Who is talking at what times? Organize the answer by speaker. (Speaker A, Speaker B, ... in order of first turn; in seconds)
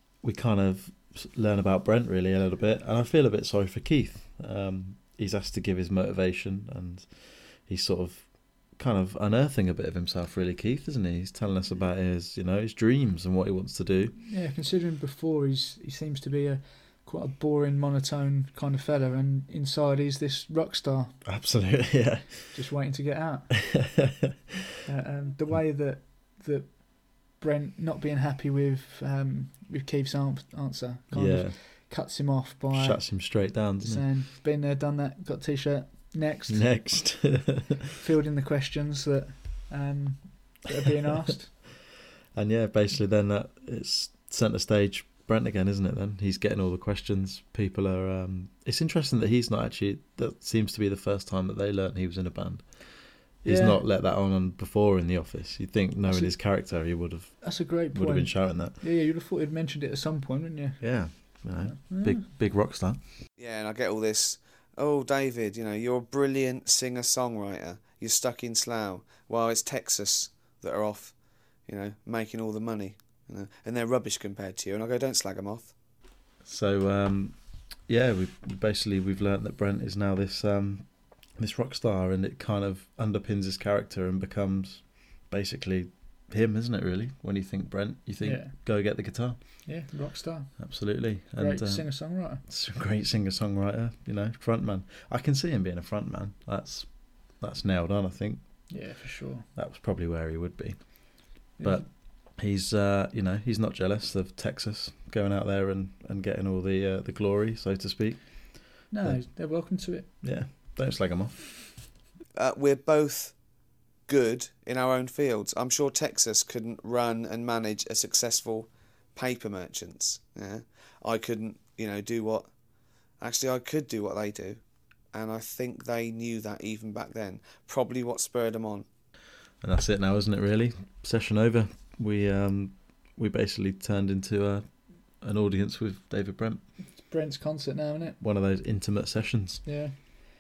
Speaker A: 0.2-14.2, 21.2-22.6, 23.7-24.4, 31.1-31.6, 32.7-34.0, 36.5-37.9, 42.3-52.9, 53.4-58.8, 60.8-63.0, 76.4-89.4, 90.6-98.4, 99.5-100.8, 101.6-109.3, 110.2-111.6, 129.6-136.6, 138.2-139.6
Speaker B: 14.2-21.1, 22.5-23.5, 24.9-36.7, 38.0-41.6, 53.5-53.8, 56.1-56.3, 57.4-62.2, 88.2-88.5, 89.7-90.6, 91.4-92.4, 98.7-99.5, 101.6-101.9, 108.9-110.1, 136.9-138.2, 139.7-139.9
Speaker C: 63.4-71.2, 71.7-75.7, 112.3-113.4, 114.1-122.5, 123.2-124.6, 125.1-128.9